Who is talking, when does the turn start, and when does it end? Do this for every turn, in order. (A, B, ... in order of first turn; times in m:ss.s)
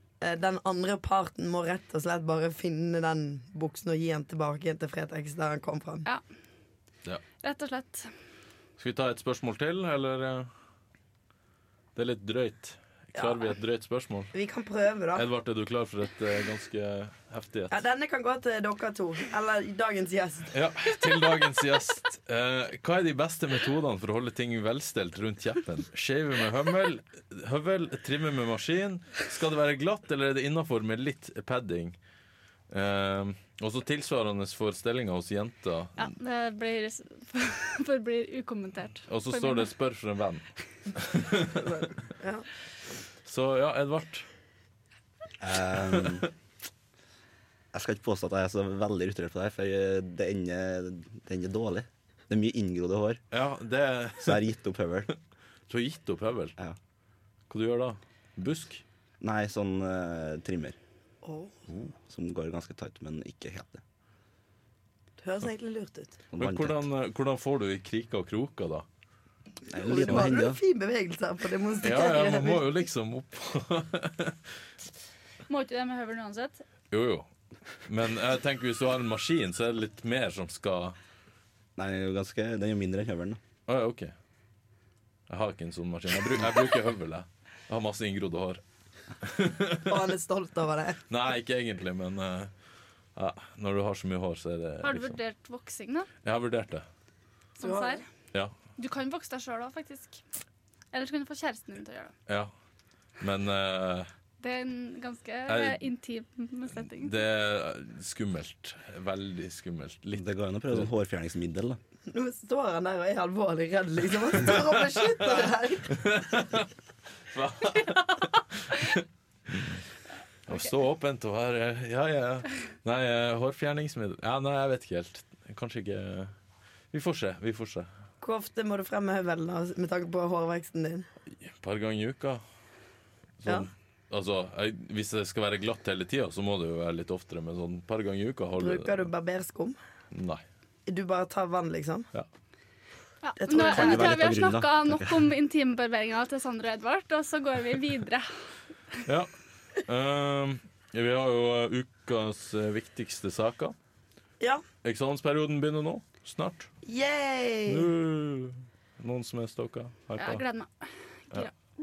0:00.2-0:06.1 A
0:07.4-0:08.1 B
0:08.8-0:10.5 C
0:12.0-0:14.3 C
0:14.3-0:15.3 A
0:15.1-0:17.8 C
0:17.7-0:20.5 A
0:20.5-0:32.0 C
0:32.7-0:36.2 C
0:36.0-0:39.7 B
0:39.1-0:41.8 C
0:41.6-0:42.5 A
0:43.2-0:44.3 C
0:45.4-0:46.3 D
0:47.7-0:53.2 D
0:53.3-0:54.4 C
0:54.2-0:55.1 D
0:55.7-0:56.6 C
0:57.5-0:58.8 C
0:59.2-1:00.8 D
1:01.2-1:01.5 A
1:02.0-1:03.8 D
1:05.2-1:06.2 A
1:06.3-1:06.8 D
1:06.4-1:08.9 C
1:09.7-1:10.6 D
1:09.8-1:12.6 A
1:11.8-1:14.4 C
1:15.5-1:16.6 B
1:16.9-1:17.3 C
1:17.8-1:21.0 C
1:21.8-1:23.4 D
1:23.7-1:24.1 C
1:25.3-1:28.6 C
1:29.2-1:30.0 C
1:29.9-1:31.0 A
1:31.1-1:32.5 C
1:33.2-1:35.2 C
1:34.8-1:36.1 B
1:36.2-1:36.9 C
1:37.6-1:38.0 B
1:37.6-1:38.0 A
1:38.8-1:40.2 B
1:40.9-1:42.2 B
1:43.2-1:44.1 C
1:44.4-1:47.2 B
1:45.5-1:45.8 C
1:46.7-1:50.9 C
1:50.1-1:51.8 D
1:52.1-1:56.2 A
1:55.9-1:56.7 C
1:57.3-1:59.8 C
2:00.5-2:06.3 C
2:06.9-2:07.9 C
2:08.2-2:11.1 A
2:11.4-2:12.4 C
2:13.4-2:19.1 C
2:18.6-2:19.8 A
2:20.1-2:20.4 C
2:20.9-2:22.1 A
2:23.2-2:28.3 B
2:23.4-2:24.5 A
2:23.6-2:25.3 D
2:29.0-2:29.3 C
2:29.8-2:33.8 C
2:34.8-2:36.7 C
2:36.8-2:37.9 A
2:37.7-2:40.4 C
2:40.2-2:41.5 B